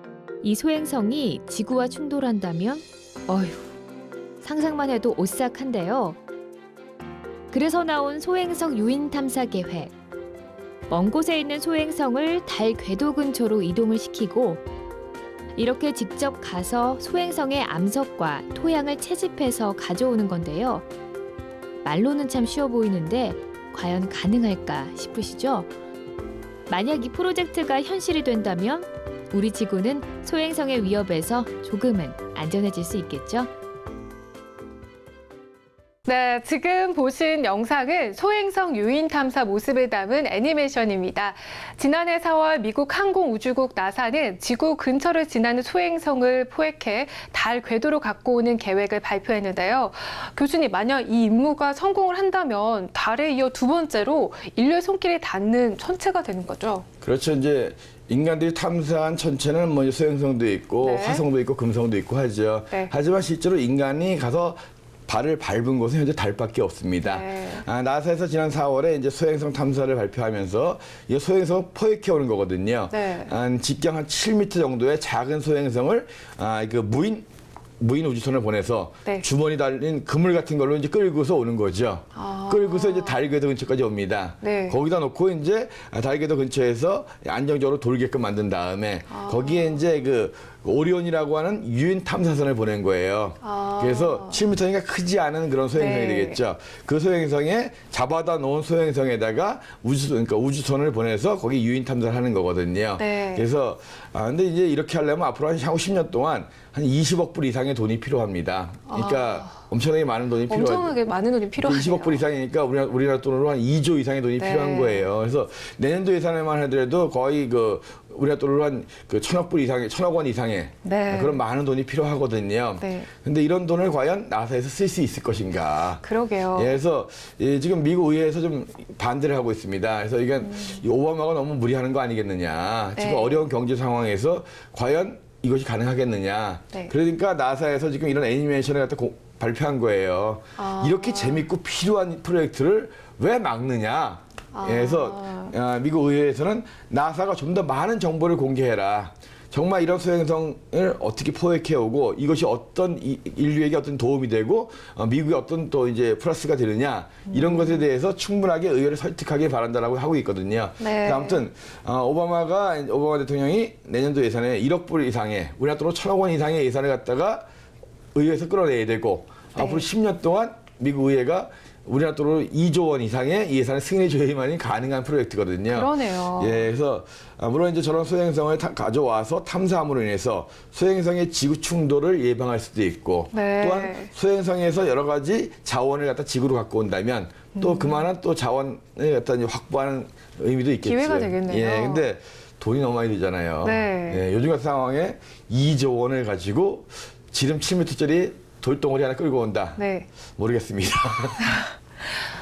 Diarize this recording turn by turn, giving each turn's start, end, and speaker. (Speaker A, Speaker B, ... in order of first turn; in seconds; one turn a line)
Speaker A: 0.4-3.6
Speaker A: 4.4-6.2
Speaker A: 7.5-9.9
Speaker A: 10.9-14.6
Speaker A: 15.6-20.9
Speaker A: 21.8-25.7
Speaker A: 26.7-33.5
Speaker B: 36.1-56.9
Speaker C: 57.0-77.3
Speaker B: 60.8-61.2
Speaker B: 67.0-67.7
Speaker B: 72.9-73.3
Speaker C: 77.8-111.0
Speaker B: 82.2-83.2
Speaker B: 84.4-84.8
Speaker B: 89.1-89.8
Speaker B: 93.4-94.4
Speaker B: 95.8-96.4
Speaker B: 103.0-103.5
Speaker B: 108.9-109.6
Speaker B: 110.5-112.3
Speaker C: 111.6-126.0
Speaker B: 114.4-115.1
Speaker B: 120.8-121.4
Speaker B: 122.8-123.1
Speaker B: 126.0-126.8
Speaker C: 126.5-167.4
Speaker B: 130.4-130.8
Speaker B: 133.0-133.4
Speaker B: 140.6-141.5
Speaker B: 144.5-145.5
Speaker B: 157.3-157.8
Speaker B: 160.8-161.4
Speaker C: 168.1-201.6
Speaker B: 169.6-169.9
Speaker B: 175.7-176.7
Speaker B: 183.3-184.1
Speaker B: 187.6-188.1
Speaker B: 190.8-192.1
Speaker B: 193.6-194.2
Speaker B: 199.8-200.1